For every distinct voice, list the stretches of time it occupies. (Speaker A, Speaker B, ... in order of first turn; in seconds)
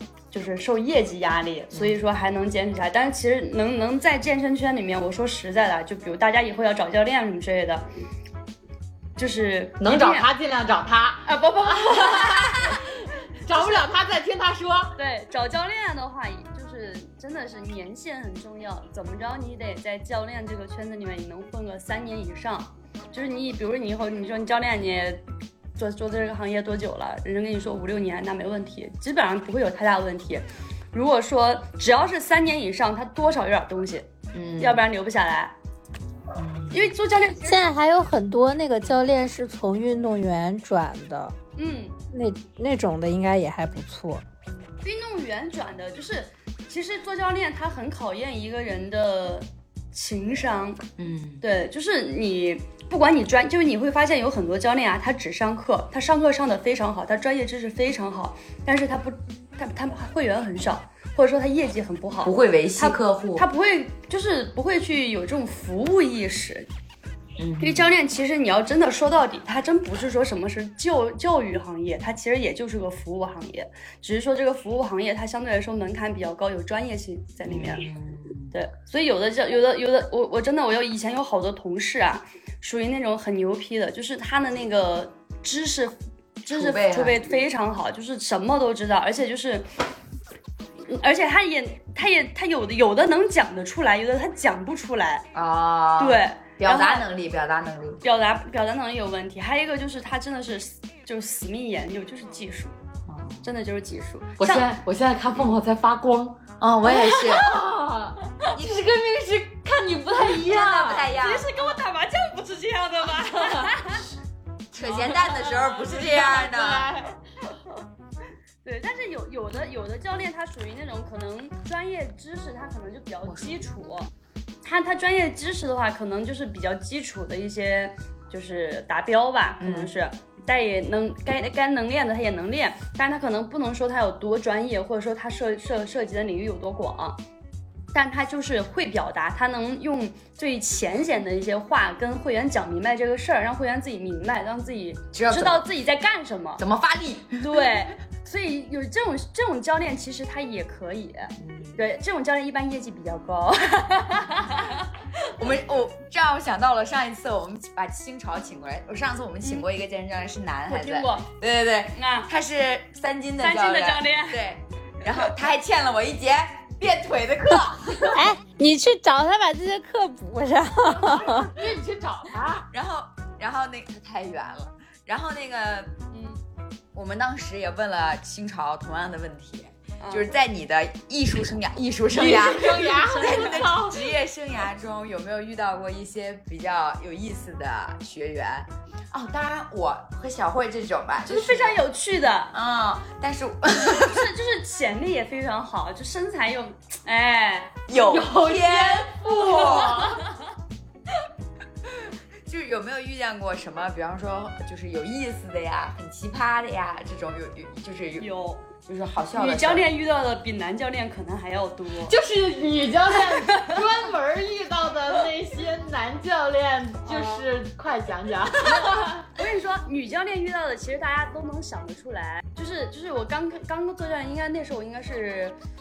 Speaker A: 0.3-7.8, 9.2-10.3, 11.3-12.7, 13.5-13.8, 15.0-25.2, 25.8-35.5, 36.7-37.7, 41.6-42.0, 44.8-50.8, 51.4-66.7, 67.6-77.9, 78.5-89.7, 90.9-95.3, 96.0-97.1, 98.0-102.7, 103.4-104.7, 110.4-114.0, 115.1-116.2, 118.6-124.1, 124.6-137.2, 137.9-146.6, 147.4-154.9, 160.7-161.3, 161.9-162.3, 163.4-164.4, 165.0-165.3, 176.1-176.4, 180.0-180.3, 182.2-183.7, 191.2-192.5, 193.8-197.8, 208.2-208.7, 209.3-212.2, 217.1-217.5, 218.7-225.6
Speaker B: 1.7-2.0, 34.3-34.8, 36.4-36.9, 51.0-51.4, 62.2-63.5, 67.4-67.9, 77.5-78.5, 86.5-87.2, 95.3-98.0, 103.1-103.5, 106.6-107.6, 108.6-108.8, 110.7-111.5, 114.7-116.9, 123.3-123.6, 129.6-129.9, 145.1-145.7, 146.6-147.8, 151.4-151.8, 155.4-168.2, 172.7-175.9, 176.9-191.8, 192.5-194.3, 197.9-200.1, 201.9-208.3, 208.8-209.9
Speaker C: 9.8-14.9, 104.4-111.0, 113.3-113.7, 114.9-117.1, 171.4-172.7, 182.1-184.1, 197.9-200.2, 212.1-219.2
Speaker D: 37.5-41.4, 42.1-44.2, 168.1-171.5